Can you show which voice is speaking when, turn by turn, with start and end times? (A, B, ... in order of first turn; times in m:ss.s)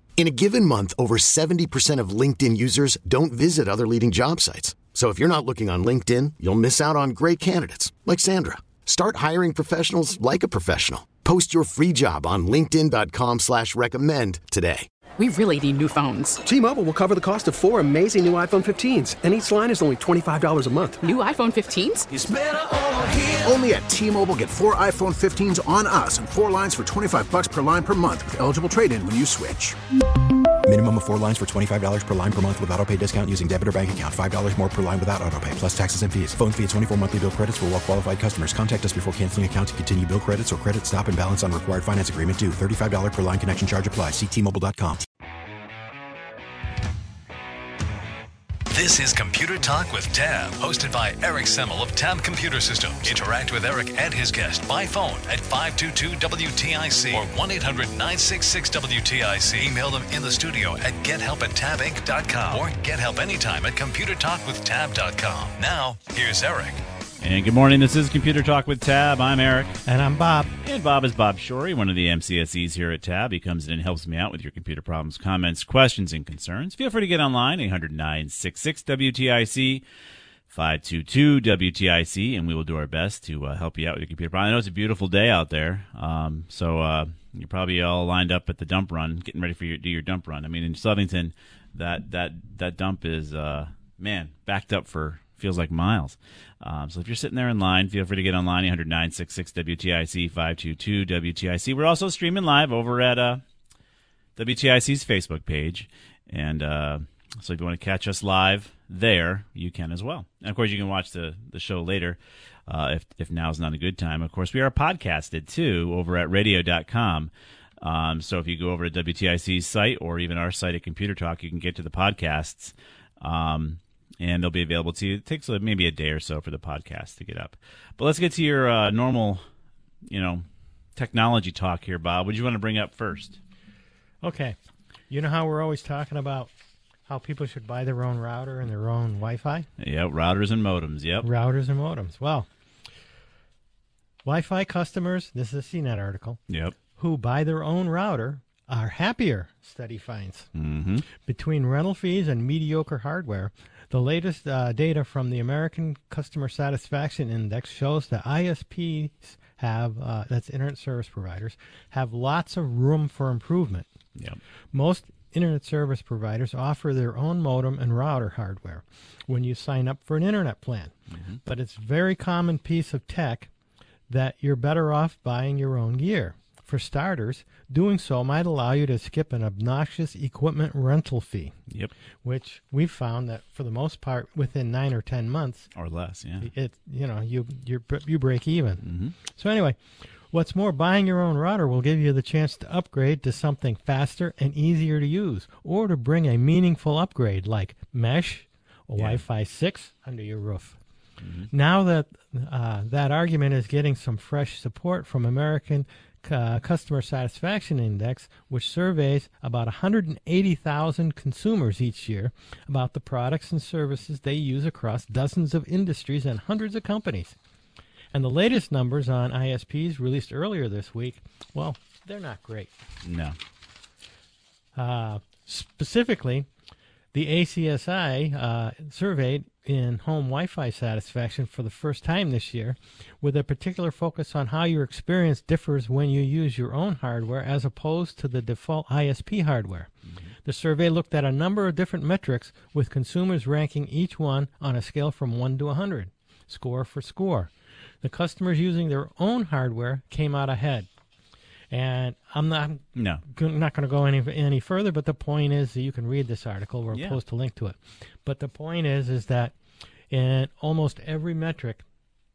0:00.2-0:14.9 A
0:15.2-0:16.4 B
0:16.4-0:21.0 C
0:21.0-0:22.1 B
0:22.1-0:29.8 D
0:30.6-0:45.0 E
0:48.7-1:06.8 F
1:07.2-1:09.8 G
1:09.8-1:10.5 H
1:10.6-1:19.8 G
1:20.5-1:43.4 G
1:44.4-2:09.4 G
2:10.1-2:13.4 G
2:14.2-2:14.6 H
2:15.1-2:16.5 H
2:17.1-2:19.7 H
2:19.8-2:21.3 G
2:21.2-2:22.5 H
2:24.2-2:26.4 H
2:26.5-2:26.8 G
2:27.0-2:30.5 H
2:30.5-2:31.0 G
2:31.2-2:43.9 H
2:44.7-2:53.5 H
2:51.1-2:51.4 G
2:54.1-3:01.6 H
3:02.2-3:05.7 H
3:05.7-3:06.5 G
3:06.4-3:20.8 H
3:08.8-3:09.1 G
3:21.2-3:21.5 G
3:21.5-3:37.4 H
3:38.1-3:42.7 H
3:43.0-3:43.4 G
3:44.7-3:46.5 H
3:47.1-3:59.9 H
4:00.4-4:10.9 H
4:11.7-4:19.5 H
4:12.9-4:13.2 G
4:16.9-4:17.2 G
4:20.1-4:21.8 H